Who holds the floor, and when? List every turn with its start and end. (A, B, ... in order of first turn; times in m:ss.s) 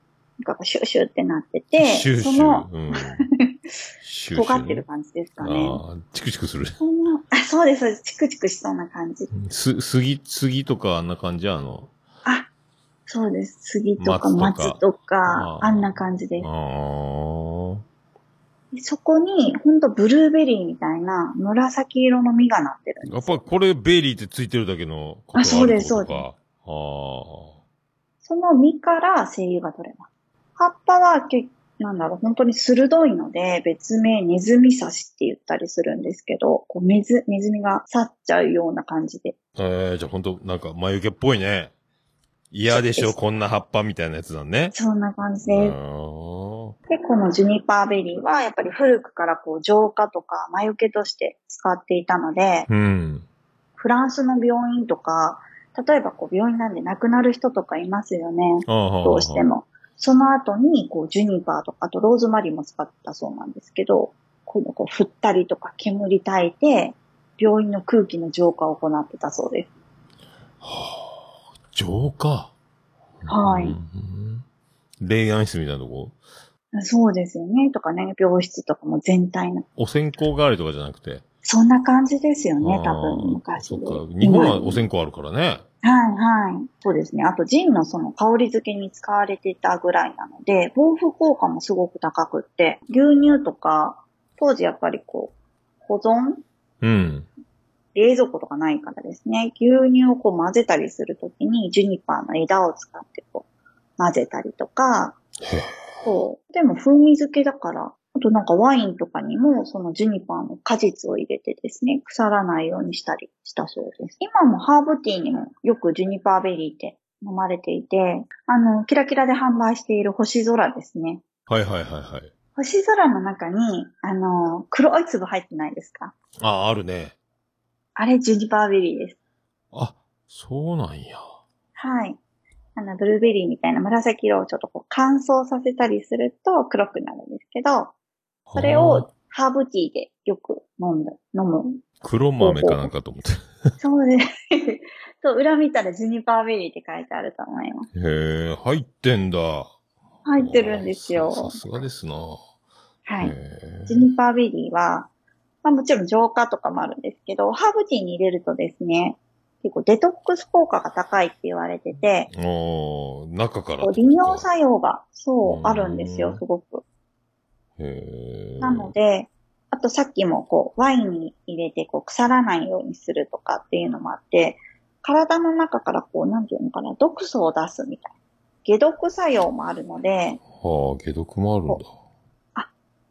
0:00.4-0:03.7 A
0:01.8-0:03.2 B
0:04.0-0:04.8 B
0:04.3-0:05.8 A
0:05.4-0:06.8 B
0:06.8-0:09.3 A
0:09.3-0:11.9 B
0:13.1-0:16.5 A
0:14.0-0:17.8 B
0:18.7-0:23.4 A
0:23.0-0:27.6 B
0:25.3-0:26.2 A
0:28.2-0:39.4 A
0:39.6-0:41.7 B
0:42.5-0:44.7 B
0:42.7-0:43.2 A
0:44.7-0:45.8 A
0:45.4-0:46.8 B
0:46.9-0:52.7 A
0:52.7-0:53.3 B
0:53.8-1:09.7 A
0:58.6-0:59.5 B
1:10.6-1:12.5 B
1:13.2-1:14.4 B
1:13.3-1:13.8 A
1:15.0-1:16.2 B
1:16.7-1:19.6 A
1:19.8-1:21.2 B
1:21.4-1:24.8 A
1:22.6-1:25.6 B
1:25.8-1:36.4 A
1:36.8-1:37.3 B
1:37.9-1:43.4 A
1:44.0-1:45.2 A
1:45.4-1:46.1 B
1:46.0-2:01.2 A
2:01.5-2:02.3 B
2:02.6-2:06.1 A
2:06.4-2:07.2 B
2:08.0-2:09.2 A
2:09.7-2:11.2 B
2:11.8-2:12.2 A
2:12.8-2:17.9 A
2:18.5-2:19.1 B
2:18.6-2:21.8 A
2:22.0-2:23.7 B
2:22.4-2:22.9 A
2:23.8-2:27.9 A
2:27.9-2:29.7 B
2:30.2-2:31.6 A
2:30.4-2:32.4 B
2:33.0-2:33.3 A
2:33.2-2:34.1 B
2:33.9-2:35.1 A
2:35.6-2:42.3 A
2:42.3-2:44.5 B
2:43.8-2:46.8 A
2:45.4-2:46.4 B
2:47.8-2:48.9 B
2:48.6-2:58.1 A
2:58.6-3:00.4 A
3:00.5-3:01.9 B